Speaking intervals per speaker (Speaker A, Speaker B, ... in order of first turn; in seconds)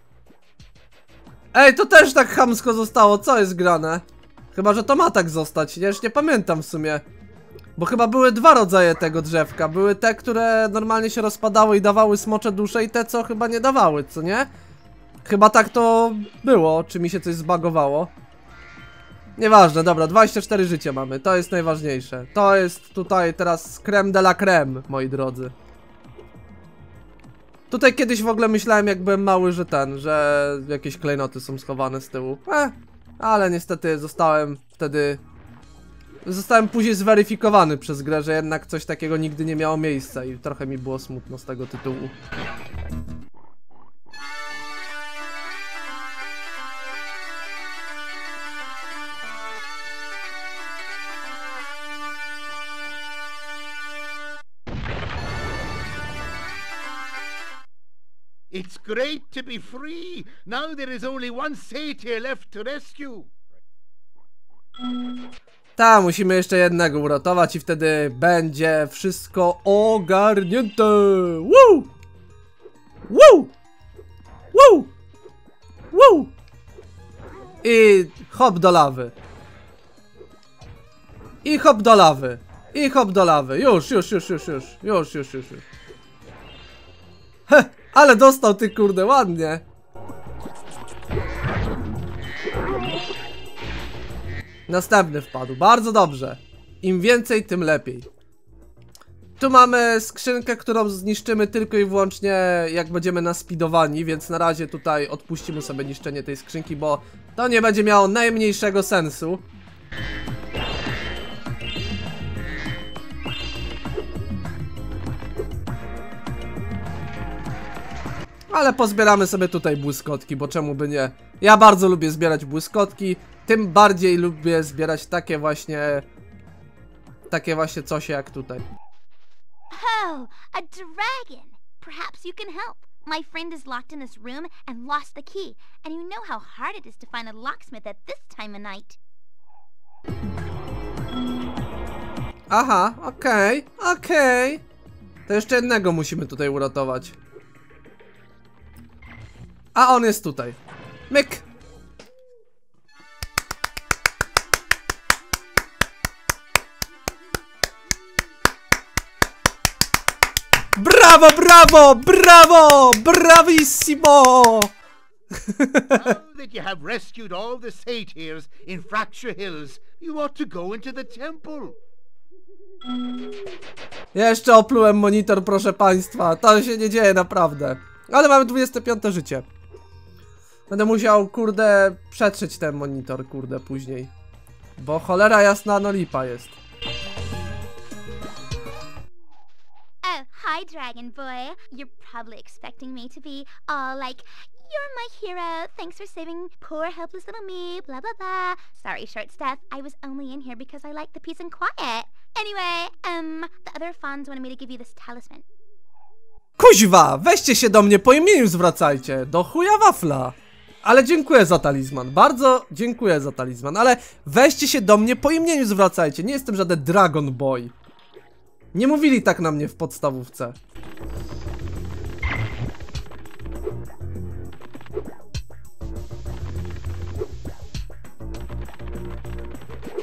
Speaker A: 1.5-7.0, 7.8-14.5, 15.2-18.1, 19.4-25.5, 27.7-35.2, 36.2-42.1, 65.8-71.9, 73.1-73.5, 74.5-74.9, 75.9-76.3, 77.6-79.1, 81.4-85.7, 87.5-89.6, 94.7-98.1, 99.4-109.5, 118.5-126.1, 127.3-128.7, 142.5-144.6, 145.3-147.2, 149.8-150.6, 151.1-151.4, 160.8-164.7, 165.5-166.2, 174.1-179.5, 180.7-184.1, 184.8-186.6, 206.6-217.7, 218.7-220.6
Speaker B: 58.5-63.3, 165.9-171.8
Speaker C: 129.7-139.0, 190.0-205.4